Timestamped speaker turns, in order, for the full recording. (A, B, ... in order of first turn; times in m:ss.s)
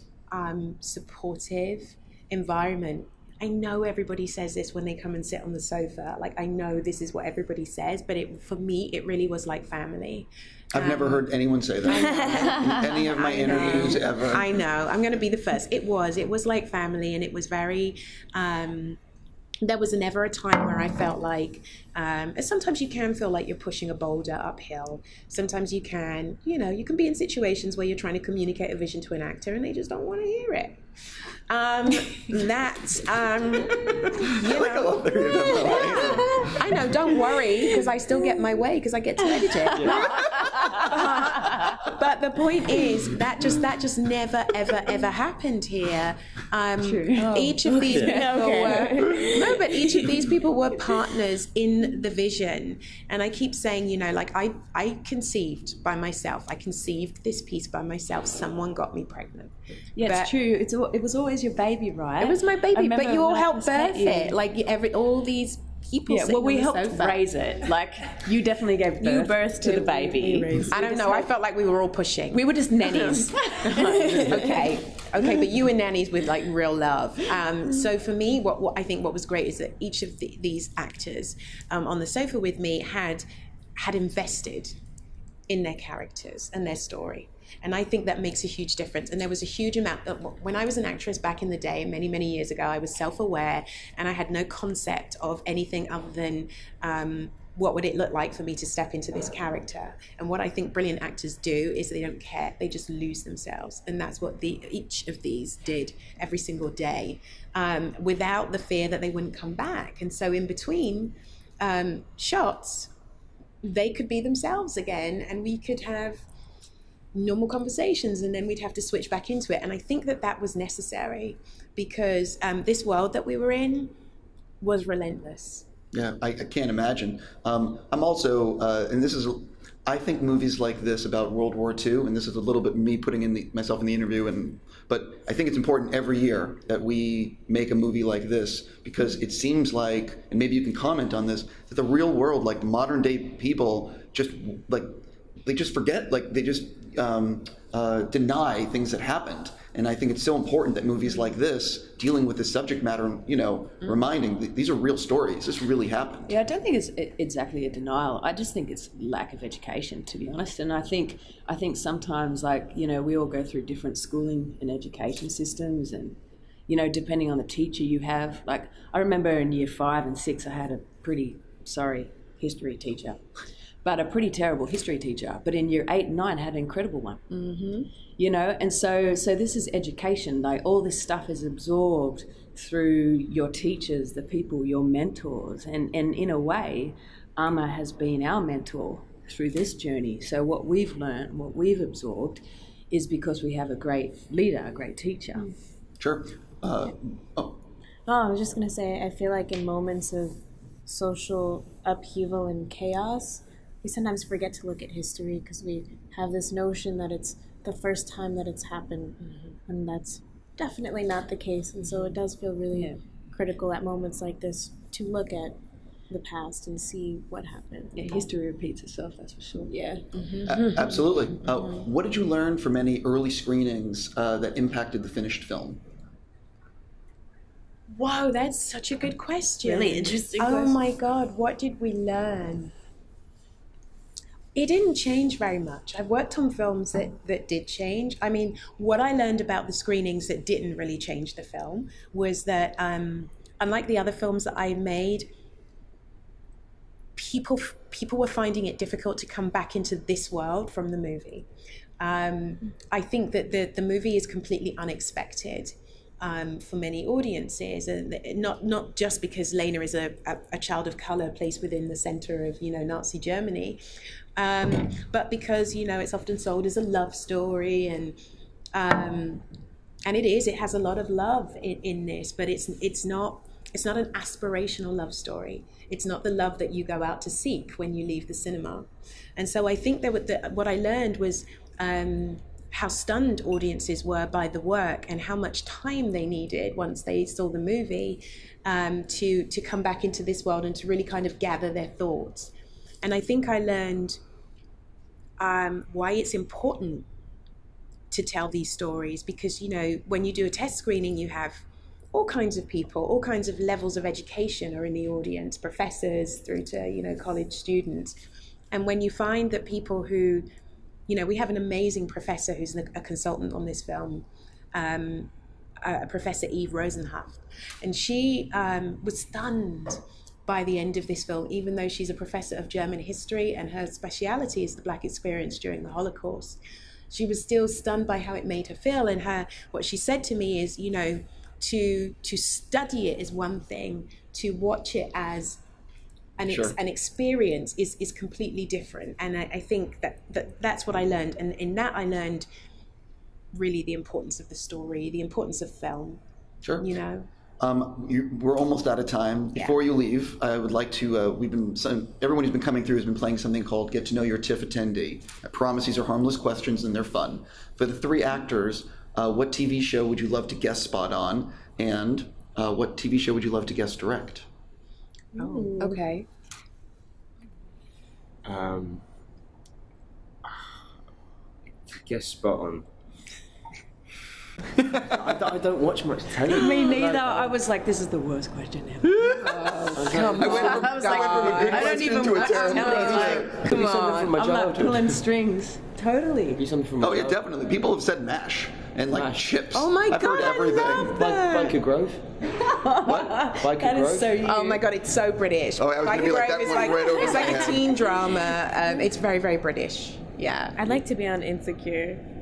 0:00.3-0:11.3 A
0:10.7-0:14.5 B
0:11.8-0:19.0 A
0:12.0-0:12.3 C
0:19.6-0:30.8 A
0:31.5-0:40.2 A
0:34.5-0:36.7 B
0:39.4-0:40.0 D
0:39.8-0:40.0 E
0:40.4-0:40.9 B
0:40.8-1:00.3 A
0:46.8-0:49.4 D
0:48.0-0:49.4 C
1:00.0-1:04.4 D
1:02.2-1:07.7 A
1:06.1-1:10.7 D
1:09.2-1:11.3 C
1:10.7-1:23.2 A
1:13.0-1:14.6 D
1:23.8-1:24.8 A
1:25.5-1:52.9 A
1:53.6-1:56.2 A
1:57.1-2:03.9 A
2:04.6-2:05.6 A
2:05.9-2:36.4 B
2:36.2-2:53.2 D
2:53.8-2:57.3 D
2:57.3-2:57.9 A
2:58.1-3:15.5 D
3:16.0-3:17.6 B
3:18.1-3:35.6 C
3:32.7-3:33.0 D
3:36.1-3:38.1 C
3:37.9-3:39.7 D
3:39.7-3:40.1 C
3:40.1-3:40.5 A
3:40.4-3:45.8 B
3:47.9-3:52.7 A
3:49.6-3:50.8 C
3:54.5-4:05.3 A
4:07.2-4:11.5 A
4:12.0-4:23.8 A
4:24.4-4:28.2 A
4:28.7-4:29.4 A
4:30.0-4:52.5 A
4:53.0-4:54.2 A
4:55.4-4:57.0 A
4:58.1-5:08.1 A
5:08.7-5:10.4 A
5:11.1-5:15.3 A
5:15.8-5:26.6 A
5:27.1-5:35.6 A
5:36.4-5:42.5 A
5:36.5-5:36.7 B
5:43.5-5:46.2 A
5:46.8-5:47.3 A
5:47.6-6:04.5 B
6:05.4-6:06.0 C
6:05.4-6:06.3 A
6:08.4-6:09.0 E
6:11.9-6:12.9 E
6:14.9-6:17.6 E
6:16.5-6:26.6 D
6:19.4-6:24.3 A
6:19.9-6:20.7 E
6:20.3-6:23.6 B
6:23.0-6:25.2 E
6:26.5-6:27.5 E
6:27.0-6:31.2 B
6:29.1-6:29.6 E
6:29.7-6:31.8 A
6:31.1-6:32.3 E
6:32.5-6:34.9 D
6:33.0-6:33.4 B
6:33.1-6:34.4 E
6:34.4-6:40.8 A
6:35.8-6:37.9 B
6:40.7-6:42.2 C